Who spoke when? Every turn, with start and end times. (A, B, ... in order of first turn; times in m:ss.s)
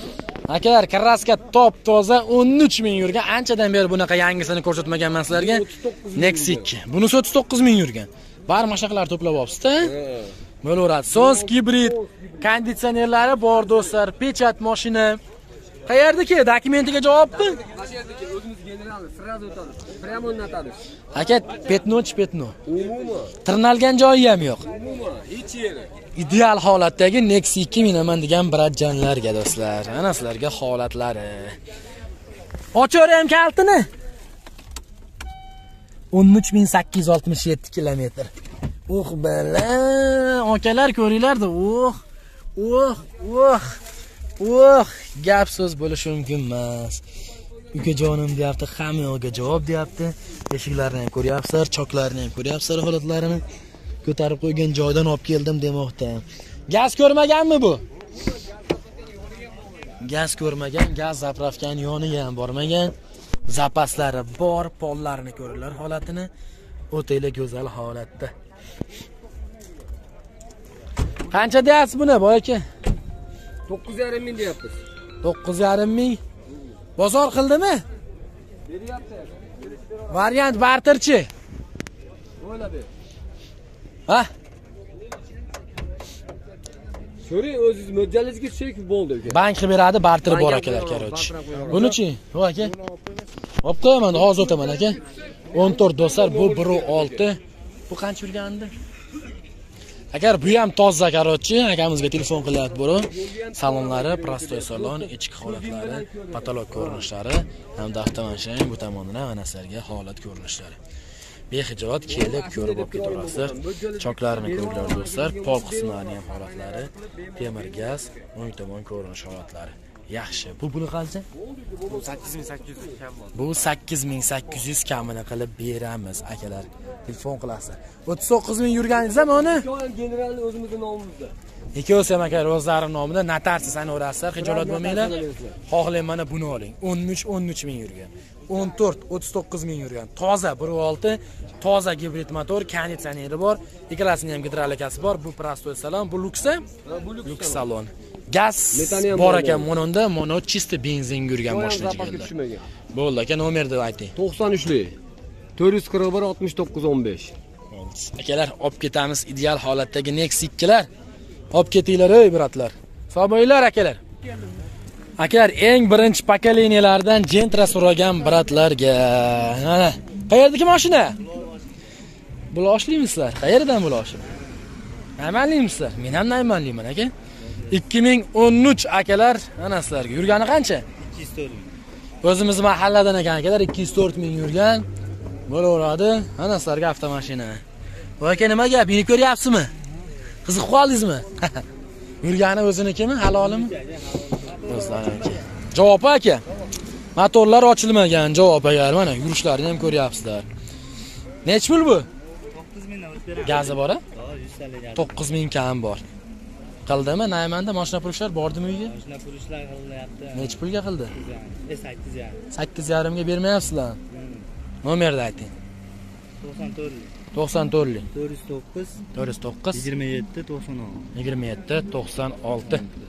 0:00.4-0:10.0 A
0:05.3-0:06.7 B
0:09.9-0:10.3 B
0:10.6-0:15.2 A
0:15.8-0:17.6 A
0:17.6-0:20.8 B
0:21.1-0:22.6 A
0:22.7-0:23.3 B
0:23.4-0:24.6 A
0:24.7-0:25.9 B
0:26.1-0:31.6 A
0:32.7-0:33.9 A
0:36.1-0:38.3 A
0:38.9-0:42.0 A
0:42.6-0:43.8 A
0:44.4-0:47.0 A
0:47.7-0:53.4 A
0:54.0-0:57.8 A
1:00.0-1:02.9 A
1:03.5-1:06.3 A
1:06.9-1:08.3 A
1:11.3-1:12.6 A
1:13.7-1:14.8 B
1:15.2-1:16.2 A
1:17.0-1:17.8 A
1:18.7-1:19.5 B
1:20.1-1:21.3 A
1:22.4-1:22.9 B
1:27.2-1:29.4 B
1:29.2-1:32.7 A
1:30.2-1:31.9 B
1:33.6-1:35.0 A
1:35.5-1:38.7 A
1:35.6-1:37.2 B
1:40.1-1:50.8 A
1:43.2-1:46.8 B
1:51.5-2:01.3 A
1:52.1-1:56.0 B
2:01.5-2:03.0 B
2:03.3-2:09.6 A
2:09.2-2:11.3 B
2:11.7-2:26.6 A
2:14.4-2:15.5 B
2:26.9-2:27.6 B
2:27.2-2:32.3 A
2:28.7-2:29.7 B
2:31.5-2:32.7 B
2:32.9-2:34.1 A
2:34.2-2:35.0 B
2:35.6-2:37.3 B
2:37.7-2:40.9 A
2:41.5-2:44.0 A
2:45.2-2:51.2 A
2:52.5-2:54.2 A
2:55.2-2:57.1 A
2:57.7-3:00.8 A
3:01.0-3:01.7 C
3:02.2-3:04.8 A
3:05.5-3:07.6 A
3:08.2-3:09.7 A
3:10.4-3:11.6 A
3:12.2-3:13.8 A
3:13.4-3:15.1 C
3:14.6-3:16.4 A
3:17.1-3:20.4 A
3:21.4-3:22.1 A
3:22.5-3:25.2 C
3:23.4-3:24.0 A
3:24.9-3:26.0 A
3:26.8-3:28.9 A
3:28.8-3:30.6 C
3:30.3-3:31.1 A
3:31.1-3:32.4 C
3:32.5-3:34.0 A
3:34.1-3:34.4 C
3:34.8-3:35.5 A
3:36.4-3:37.1 C
3:37.3-3:38.1 A
3:38.1-3:39.0 C
3:39.1-3:39.9 A
3:39.7-3:41.1 C
3:41.1-3:42.9 A